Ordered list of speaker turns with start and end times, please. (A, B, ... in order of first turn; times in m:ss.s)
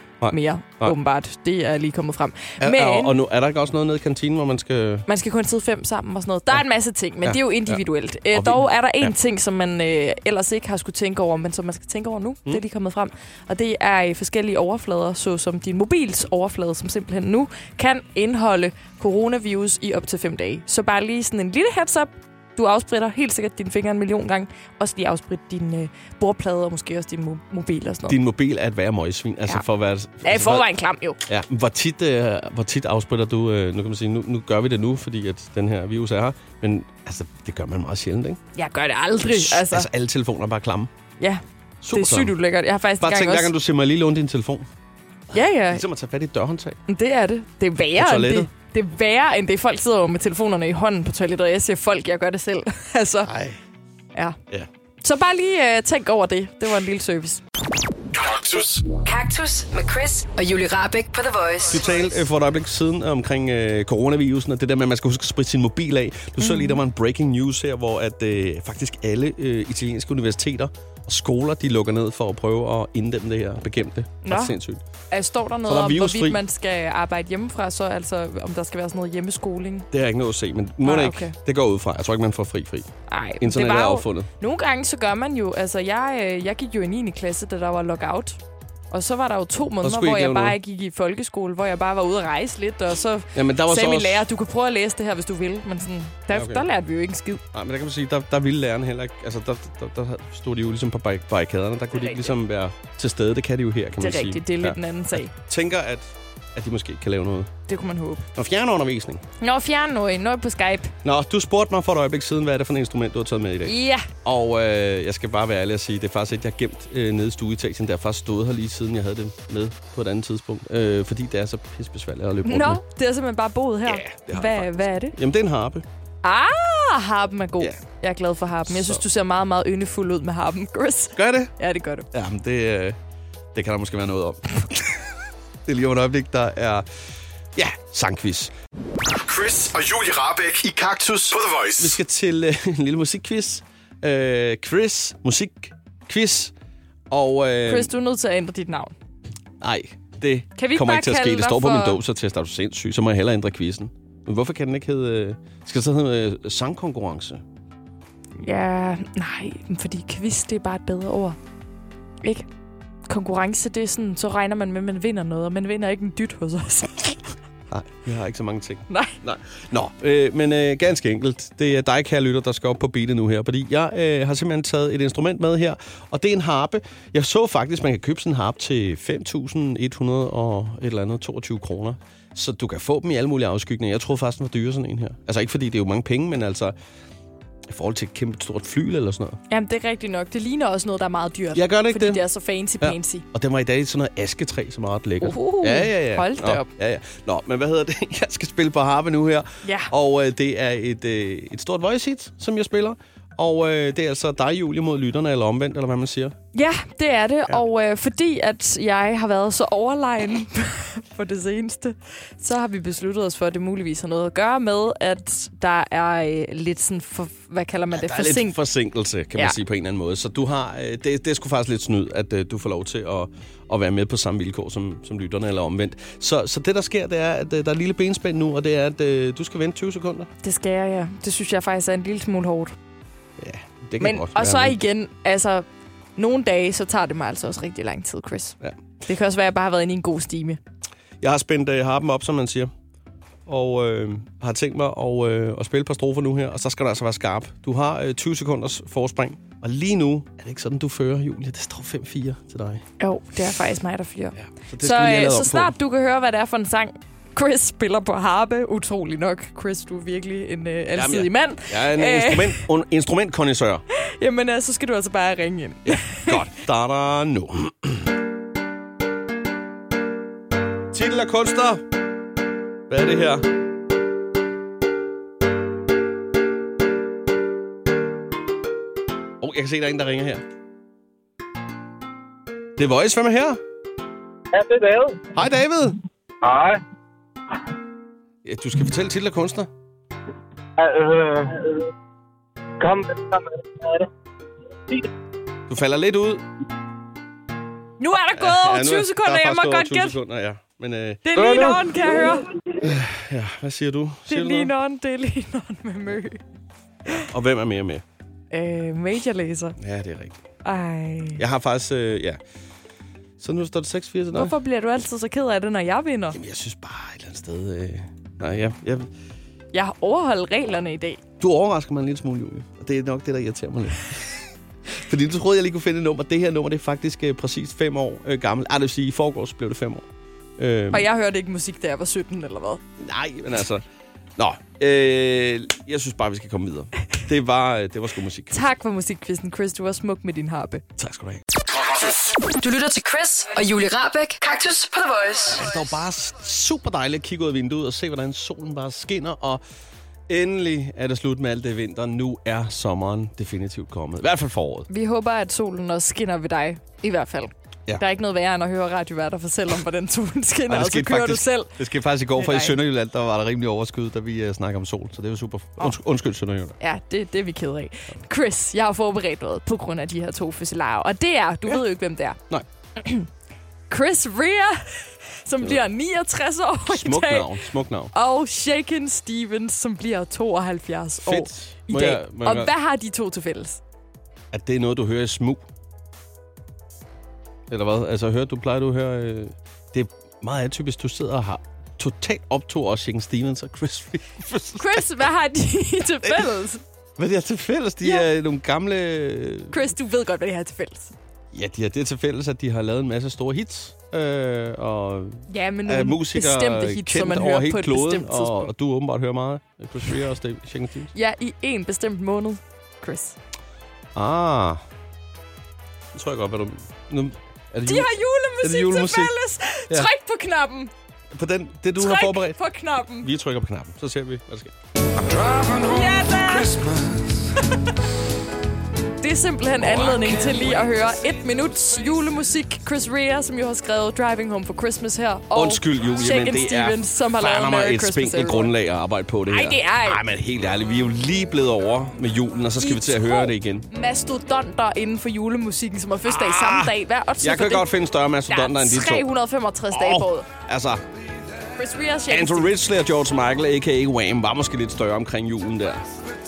0:00.2-0:00.9 A
0:00.3-0:03.2 B
0:02.6-0:05.0 A
0:05.1-0:28.2 B
0:07.2-0:07.8 A
0:08.3-0:09.1 A
0:28.1-0:30.6 A
0:30.2-0:31.2 B
0:31.3-0:38.4 A
0:38.6-0:39.9 B
0:39.3-0:40.9 A
0:41.2-0:43.5 B
0:41.8-0:42.3 A
0:43.0-0:44.7 A
0:45.3-0:45.8 B
0:45.7-0:46.8 A
0:46.9-0:53.3 B
0:48.0-0:48.5 A
0:53.3-0:53.6 A
0:55.0-0:57.4 B
0:58.1-0:58.8 C
0:58.8-1:01.8 D
1:01.7-1:14.8 A
1:06.4-1:06.8 B
1:14.2-1:14.6 B
1:15.1-1:19.9 B
1:15.7-1:16.4 A
1:19.9-1:22.9 A
1:20.8-1:21.4 B
1:23.1-1:28.4 B
1:23.4-1:24.3 A
1:28.9-1:37.4 B
1:29.8-1:30.6 A
1:33.4-1:34.2 A
1:36.3-1:36.6 A
1:37.5-1:44.8 A
1:41.9-1:42.3 B
1:44.0-1:45.3 B
1:45.5-1:47.5 A
1:47.7-1:48.2 B
1:48.4-1:49.2 A
1:49.4-1:50.9 B
1:51.0-1:53.7 A
1:53.6-1:54.1 B
1:54.2-2:02.8 A
2:02.4-2:05.2 B
2:03.9-2:05.8 A
2:06.2-2:12.1 B
2:08.7-2:09.0 A
2:11.2-2:11.5 A
2:12.1-2:13.0 A
2:13.6-2:14.4 A
2:15.7-2:16.8 A
2:17.6-2:18.5 A
2:19.1-2:22.0 C
2:21.8-2:26.5 A
2:27.1-2:27.9 A
2:27.6-2:29.0 B
2:29.6-2:37.4 A
2:30.6-2:32.0 B
2:38.4-2:41.4 B
2:43.1-2:47.2 B
2:47.7-3:06.7 A
2:48.9-2:49.2 B
3:07.7-3:09.4 A
3:09.5-3:13.2 B
3:11.6-3:12.2 A
3:12.8-3:26.4 A
3:15.2-3:16.7 B
3:19.6-3:19.9 B
3:26.5-3:38.6 B
3:38.0-3:50.3 A
3:50.4-3:52.8 B
3:53.4-3:54.8 A
3:54.0-3:55.7 B
3:56.2-4:00.6 B
4:01.2-4:02.7 A
4:03.5-4:12.8 A
4:13.0-4:22.6 B
4:14.7-4:15.7 A
4:21.0-4:23.8 A
4:23.9-4:26.4 B
4:25.9-4:28.0 A
4:30.9-4:31.8 A
4:32.9-4:33.4 A
4:39.4-4:40.4 A
4:42.8-4:43.6 A
4:44.5-4:45.3 E
4:45.4-4:46.0 A
4:46.4-4:46.8 E
4:48.4-4:49.7 A
4:50.8-4:51.9 E
4:52.8-4:54.1 E
4:55.7-4:56.4 A
4:58.0-5:00.2 B
4:58.4-5:01.2 A
5:01.2-5:02.5 B
5:01.4-5:02.3 E
5:02.8-5:04.7 A
5:04.3-5:06.4 B
5:07.2-5:08.0 A
5:08.5-5:09.8 B
5:09.8-5:10.4 A
5:10.6-5:11.4 B
5:11.4-5:12.4 A
5:13.4-5:14.5 A
5:14.3-5:16.4 B
5:16.3-5:19.1 A
5:19.7-5:21.2 B
5:21.4-5:24.2 A
5:24.9-5:30.0 A
5:30.6-5:31.1 A
5:30.9-5:32.8 B
5:33.0-5:33.8 A
5:34.4-5:38.6 A
5:38.5-5:40.8 B
5:41.0-5:41.4 A
5:42.0-5:45.6 D
5:45.6-5:49.6 A
5:50.3-5:54.9 A
5:54.9-6:01.7 B
6:00.7-6:06.8 A
6:02.4-6:02.8 B
6:06.8-6:12.4 B
6:13.0-6:13.3 B
6:13.9-6:17.5 B
6:16.9-6:18.1 A
6:18.1-6:23.8 B
6:21.2-6:22.7 A
6:24.5-6:25.6 A
6:27.7-6:35.0 A
6:34.8-6:36.8 B
6:37.2-6:39.8 A
6:38.0-6:38.3 B
6:39.7-6:41.2 B
6:41.5-6:51.1 A
6:45.5-6:48.7 B
6:51.1-6:53.4 B
6:54.2-6:54.8 A
6:56.1-6:58.1 A
6:57.9-7:00.9 B
6:58.6-6:59.3 A
7:01.3-7:02.6 A
7:02.0-7:03.3 B
7:03.2-7:04.7 A
7:05.7-7:06.9 B
7:09.2-7:18.7 B
7:09.9-7:10.5 A
7:15.6-7:23.9 A
7:19.5-7:20.2 B
7:22.8-7:27.9 B
7:26.3-7:29.2 A
7:28.5-7:30.5 B
7:29.9-7:31.0 A
7:31.8-7:32.7 B
7:32.3-7:36.1 A